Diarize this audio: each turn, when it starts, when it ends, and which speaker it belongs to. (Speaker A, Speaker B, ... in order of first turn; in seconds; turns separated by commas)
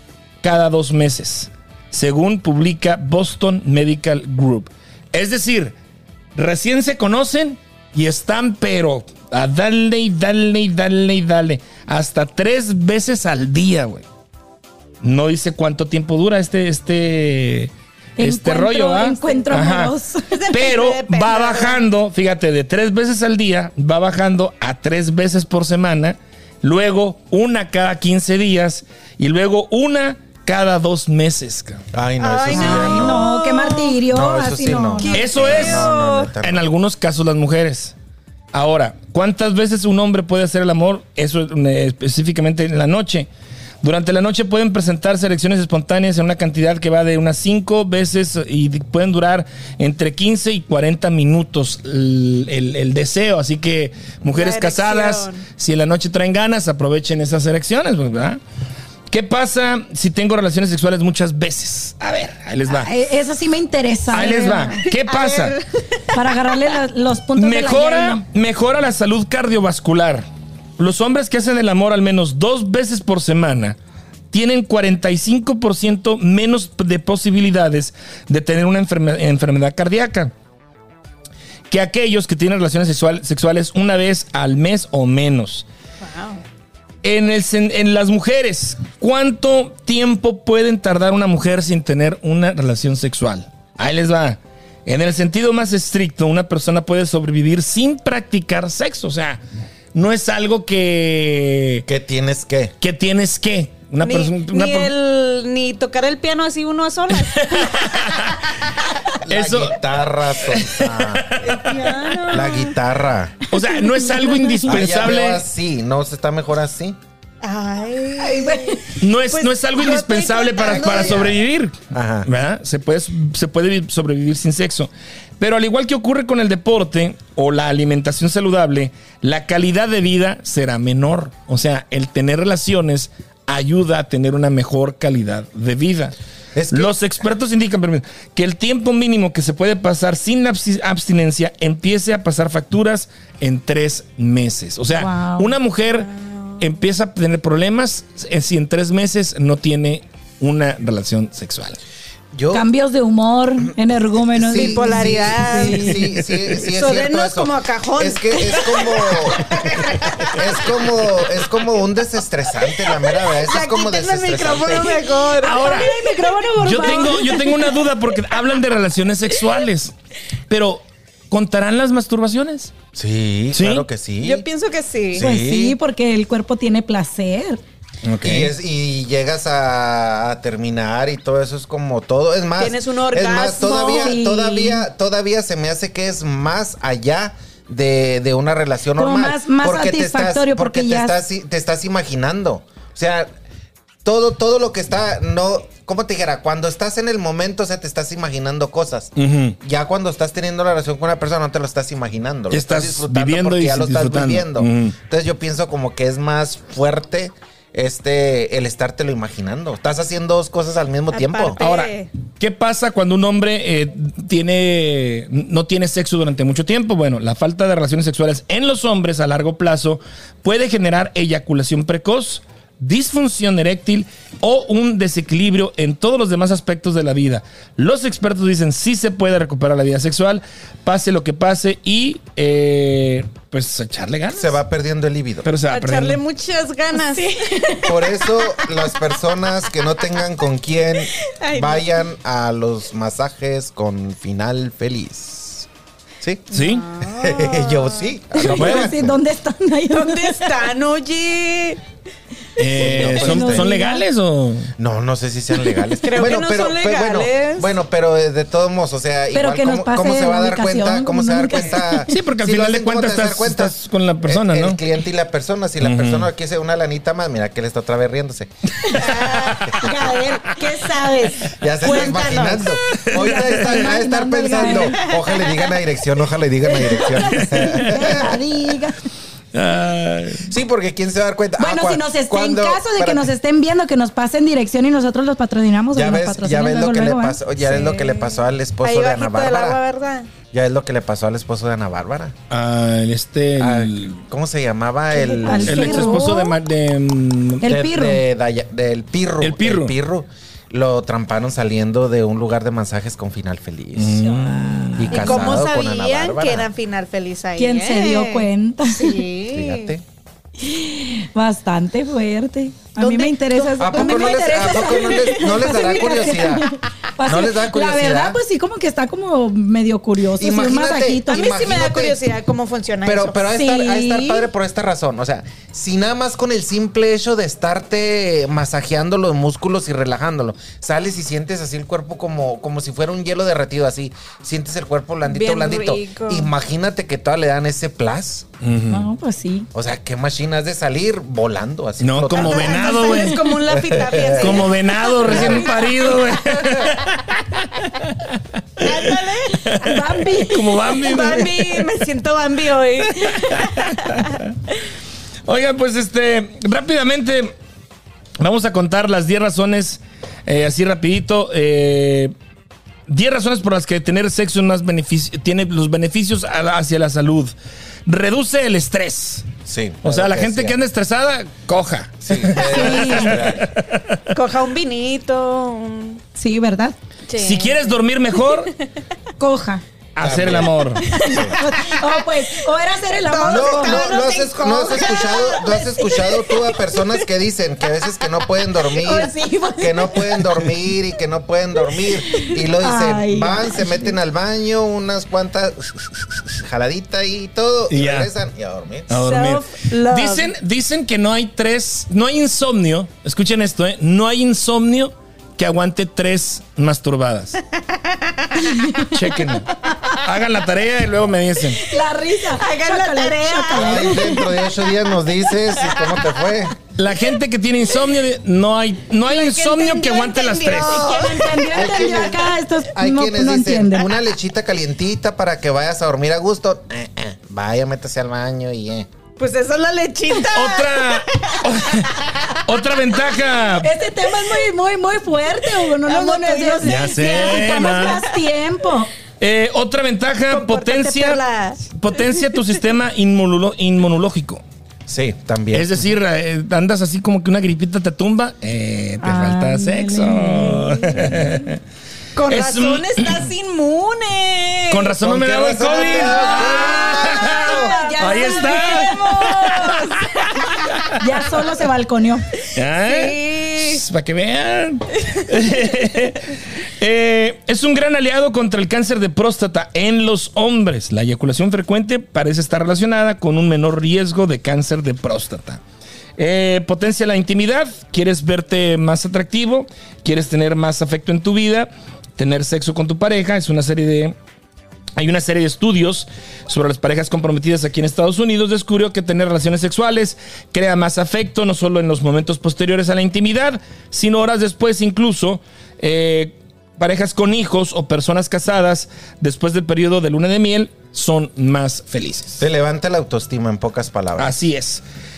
Speaker A: 0.4-5.7, Speaker A: 6.3-14.1, Speaker A: 15.0-19.9, Speaker B: 18.2-20.4, Speaker C: 19.2-19.6, Speaker C: 20.3-21.8, Speaker A: 20.5-31.8, Speaker D: 31.9-33.3, Speaker C: 32.2-34.0, Speaker B: 32.5-35.2, Speaker D: 34.1-36.6, Speaker C: 35.0-36.3, Speaker A: 35.1-37.9, Speaker A: 38.5-43.3, Speaker A: 43.8-58.4, Speaker C: 54.3-55.4, Speaker A: 59.1-62.9, Speaker B: 62.7-64.8, Speaker A: 64.1-65.6, Speaker C: 64.9-66.1, Speaker B: 66.1-68.2, Speaker A: 67.4-70.2, Speaker A: 70.8-73.8, Speaker A: 74.3-80.3, Speaker A: 81.7-85.7, Speaker C: 86.0-86.4, Speaker A: 87.0-99.4, Speaker A: 99.9-101.8, Speaker D: 101.9-102.7, Speaker A: 102.8-104.9, Speaker C: 104.0-108.5, Speaker A: 107.3-108.3, Speaker D: 109.2-111.4, Speaker A: 109.3-109.8, Speaker A: 110.4-112.0, Speaker C: 111.4-112.7, Speaker D: 112.3-113.4, Speaker A: 113.5-115.4, Speaker B: 113.8-114.6, Speaker D: 114.7-117.0, Speaker C: 117.4-121.3, Speaker B: 118.2-118.8, Speaker A: 119.0-136.1, Speaker D: 120.7-121.4, Speaker D: 121.9-122.3, Speaker D: 136.6-136.9, Speaker A: 136.7-146.1, Speaker B: 144.9-145.5, Speaker C: 146.0-146.6, Speaker A: 146.6-151.8, Speaker D: 152.3-152.7, Speaker B: 152.5-156.0, Speaker D: 154.2-159.7, Speaker C: 154.5-156.0, Speaker A: 156.2-156.6, Speaker C: 156.7-160.5, Speaker D: 160.2-165.1, Speaker C: 162.9-166.1, Speaker A: 165.4-165.9, Speaker B: 165.4-167.5, Speaker A: 166.6-169.9, Speaker C: 166.8-167.4, Speaker A: 170.5-172.7, Speaker D: 172.9-174.4, Speaker A: 173.5-173.8, Speaker C: 174.2-175.3, Speaker D: 175.1-175.8, Speaker B: 175.2-177.6, Speaker A: 178.1-178.5, Speaker D: 178.1-193.3, Speaker C: 182.6-184.1, Speaker B: 183.6-184.8, Speaker B: 189.0-191.2, Speaker D: 194.0-211.6, Speaker A: 199.2-199.6, Speaker A: 202.5-204.9, Speaker C: 211.1-212.1, Speaker A: 211.6-234.6, Speaker D: 234.3-235.5, Speaker A: 235.4-236.2, Speaker C: 235.7-238.7, Speaker B: 236.9-237.9, Speaker D: 237.8-245.7, Speaker C: 241.4-241.9, Speaker D: 246.2-246.5, Speaker A: 246.5-246.8, Speaker C: 246.5-248.1, Speaker D: 247.0-249.2, Speaker B: 248.3-250.5, Speaker A: 248.5-248.9, Speaker C: 249.9-251.8, Speaker A: 252.6-254.7, Speaker D: 252.7-253.7, Speaker B: 253.2-254.0, Speaker D: 254.8-268.5, Speaker C: 256.0-257.7, Speaker B: 259.3-262.1, Speaker A: 262.1-264.8, Speaker A: 265.8-266.3, Speaker C: 268.9-272.8, Speaker A: 269.3-269.8, Speaker D: 271.5-278.4, Speaker A: 272.9-273.8, Speaker B: 273.1-275.1, Speaker C: 274.8-275.6, Speaker B: 276.7-279.0, Speaker A: 277.3-278.1, Speaker A: 279.5-280.5, Speaker D: 280.5-283.3, Speaker B: 281.6-287.4, Speaker D: 285.9-289.8, Speaker C: 287.6-290.3, Speaker D: 290.5-292.3, Speaker A: 292.5-294.2, Speaker D: 293.6-296.2, Speaker B: 295.1-296.5, Speaker C: 295.4-296.4, Speaker A: 295.6-297.7, Speaker B: 297.6-298.2, Speaker D: 297.6-304.2, Speaker A: 299.4-299.9, Speaker A: 304.0-305.5, Speaker B: 304.2-305.4, Speaker D: 305.0-306.7, Speaker C: 305.1-309.9, Speaker B: 307.6-309.2, Speaker D: 309.5-310.0, Speaker B: 310.6-321.4, Speaker C: 313.0-316.5, Speaker D: 313.8-316.7, Speaker D: 317.2-318.4, Speaker D: 320.4-322.2, Speaker C: 321.3-323.6, Speaker D: 323.1-338.5, Speaker B: 323.5-324.4, Speaker C: 335.2-336.5, Speaker A: 338.6-339.1, Speaker B: 338.9-339.7, Speaker D: 339.7-342.8, Speaker A: 342.0-343.5, Speaker C: 342.3-346.9, Speaker B: 342.7-343.4, Speaker D: 343.7-344.7, Speaker A: 344.4-351.9, Speaker D: 345.2-345.7, Speaker C: 348.8-349.8, Speaker B: 349.8-350.7, Speaker C: 350.9-354.3, Speaker A: 353.1-354.4, Speaker A: 355.5-357.5, Speaker A: 358.4-362.3, Speaker A: 363.1-367.5, Speaker A: 368.1-369.4, Speaker D: 369.6-370.8, Speaker A: 370.0-374.2, Speaker D: 372.2-373.7, Speaker B: 372.6-373.4, Speaker C: 374.3-376.2, Speaker B: 376.4-376.9, Speaker C: 377.3-378.7, Speaker A: 377.4-378.7, Speaker B: 379.4-379.8, Speaker A: 380.1-381.1, Speaker D: 380.2-381.6, Speaker C: 381.1-382.2, Speaker B: 381.2-384.0, Speaker C: 383.2-387.1, Speaker D: 383.4-399.1, Speaker B: 389.0-390.2, Speaker B: 392.3-394.1, Speaker A: 397.9-398.3, Speaker A: 399.1-407.6, Speaker C: 399.1-400.5, Speaker C: 408.0-408.7, Speaker B: 408.7-409.1, Speaker A: 409.1-411.8, Speaker B: 411.9-414.4, Speaker C: 412.5-414.6, Speaker D: 413.7-416.8, Speaker C: 415.8-416.4, Speaker A: 416.9-421.1, Speaker C: 419.3-421.7, Speaker B: 420.8-424.1, Speaker D: 421.7-429.1, Speaker C: 429.4-432.4, Speaker A: 430.5-433.9, Speaker B: 433.8-439.1, Speaker C: 436.0-438.1, Speaker A: 436.8-438.2, Speaker A: 439.4-441.4, Speaker C: 440.5-441.9, Speaker A: 441.9-444.6, Speaker D: 445.1-446.1, Speaker A: 445.7-451.8, Speaker B: 449.2-451.6, Speaker C: 452.3-455.1, Speaker A: 452.5-453.5, Speaker A: 454.9-461.2, Speaker D: 455.2-457.9, Speaker C: 456.0-460.2, Speaker B: 457.8-460.1, Speaker B: 461.1-462.4, Speaker A: 462.7-475.8, Speaker C: 463.0-464.0, Speaker A: 476.4-484.3, Speaker A: 485.2-502.6, Speaker D: 502.6-504.5, Speaker A: 504.4-505.0